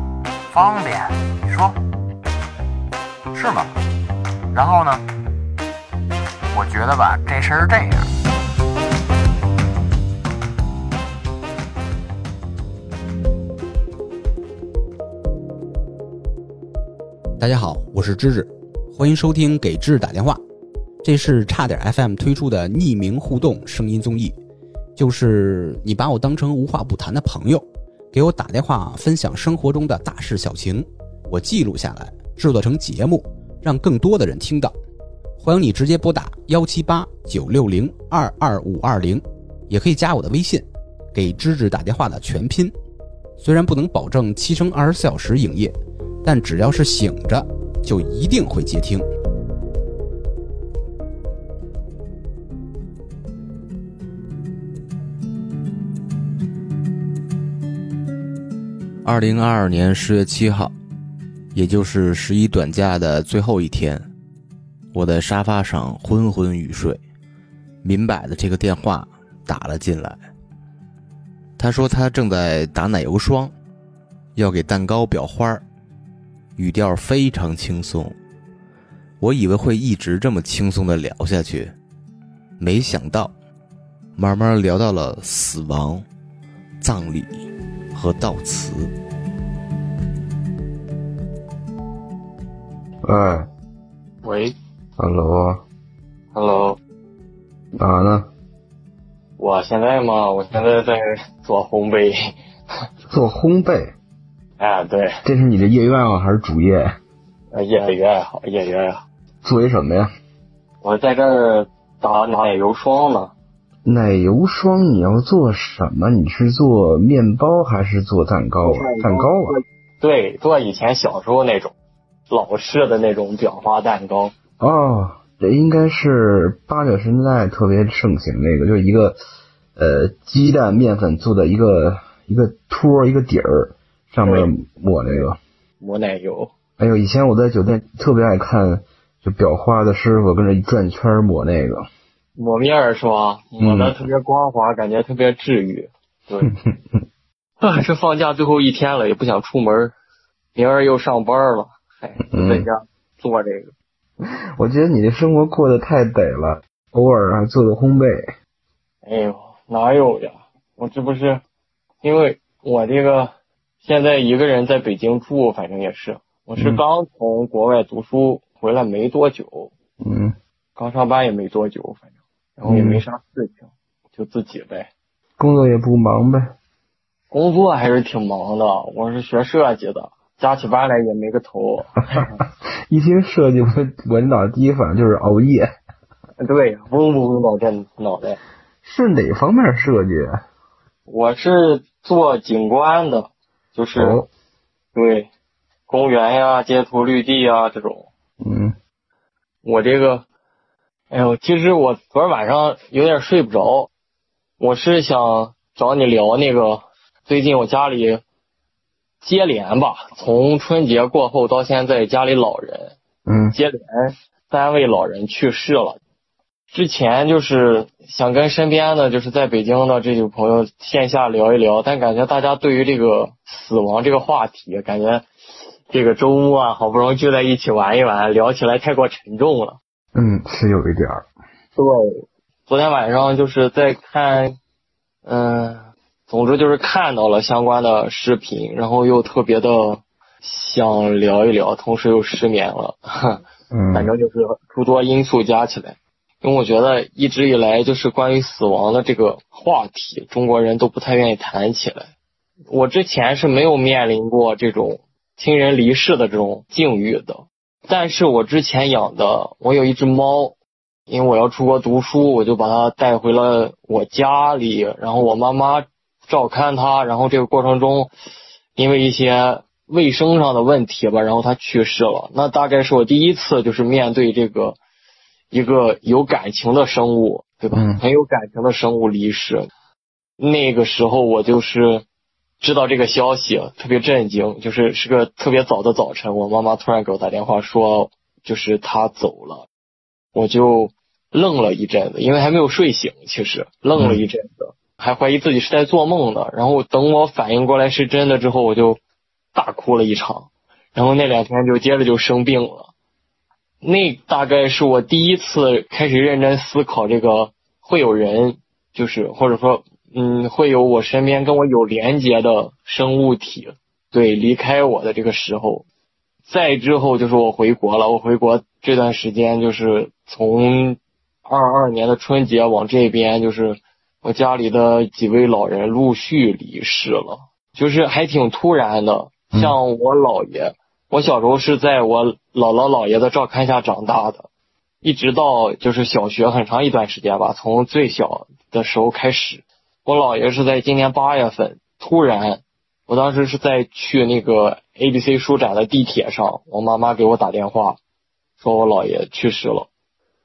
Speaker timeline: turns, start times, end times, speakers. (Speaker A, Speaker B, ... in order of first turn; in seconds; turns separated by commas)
Speaker A: 0.5-1.8, Speaker A: 3.3-3.7, Speaker A: 4.5-5.0, Speaker A: 6.5-8.1, Speaker B: 17.4-20.4, Speaker B: 21.0-24.4, Speaker B: 25.0-34.7, Speaker B: 35.4-42.7, Speaker B: 43.4-49.0, Speaker C: 59.0-60.7, Speaker C: 61.5-64.1, Speaker C: 64.9-67.0, Speaker C: 67.8-70.2, Speaker C: 71.6-73.5, Speaker C: 74.4-75.6, Speaker C: 76.6-78.2, Speaker C: 79.2-81.7, Speaker C: 82.6-83.3, Speaker C: 84.2-86.0, Speaker C: 86.8-87.4, Speaker C: 87.9-88.9, Speaker D: 93.0-93.5, Speaker E: 94.2-94.6, Speaker D: 95.0-95.6, Speaker E: 96.3-96.8, Speaker D: 97.8-98.3, Speaker E: 99.4-102.3, Speaker D: 103.1-104.0, Speaker E: 104.6-105.2, Speaker D: 105.2-107.0, Speaker E: 107.5-109.0, Speaker D: 109.4-110.1, Speaker E: 110.8-113.3, Speaker D: 113.8-119.6, Speaker E: 118.6-121.7, Speaker E: 122.3-124.3, Speaker D: 124.6-129.2, Speaker D: 129.8-135.4, Speaker E: 134.2-134.5, Speaker E: 135.8-136.5, Speaker D: 136.8-141.9, Speaker E: 142.4-146.5, Speaker D: 143.6-144.0, Speaker D: 146.4-147.1, Speaker E: 147.6-149.9, Speaker E: 150.6-153.7, Speaker D: 152.3-152.7, Speaker D: 154.2-158.3, Speaker E: 159.0-161.4, Speaker E: 162.0-169.7, Speaker D: 170.0-170.4, Speaker E: 170.8-172.0, Speaker E: 172.6-174.9, Speaker D: 172.7-173.0, Speaker D: 175.4-176.5, Speaker E: 177.3-182.4, Speaker D: 182.9-185.7, Speaker E: 186.4-188.4, Speaker D: 188.8-190.4, Speaker E: 191.1-194.2, Speaker D: 194.0-194.3, Speaker E: 194.9-195.3, Speaker E: 195.9-198.1, Speaker D: 198.4-198.8, Speaker E: 199.6-200.3, Speaker E: 201.1-203.9, Speaker E: 204.6-208.2, Speaker E: 209.2-213.0, Speaker D: 213.3-213.6, Speaker E: 213.5-216.0, Speaker E: 216.7-225.3, Speaker E: 225.9-229.8, Speaker D: 230.1-231.3, Speaker E: 231.8-234.6, Speaker E: 235.2-243.4, Speaker D: 243.7-244.1, Speaker E: 243.9-252.1, Speaker E: 252.7-260.6, Speaker E: 261.1-268.1, Speaker E: 268.8-274.8, Speaker E: 275.5-279.7, Speaker D: 277.7-278.0, Speaker E: 280.4-282.0, Speaker E: 282.6-289.7, Speaker E: 290.3-299.0, Speaker D: 294.0-294.2, Speaker E: 299.5-302.9, Speaker E: 303.8-315.9, Speaker E: 316.5-334.5, Speaker E: 335.0-348.0, Speaker E: 348.6-349.9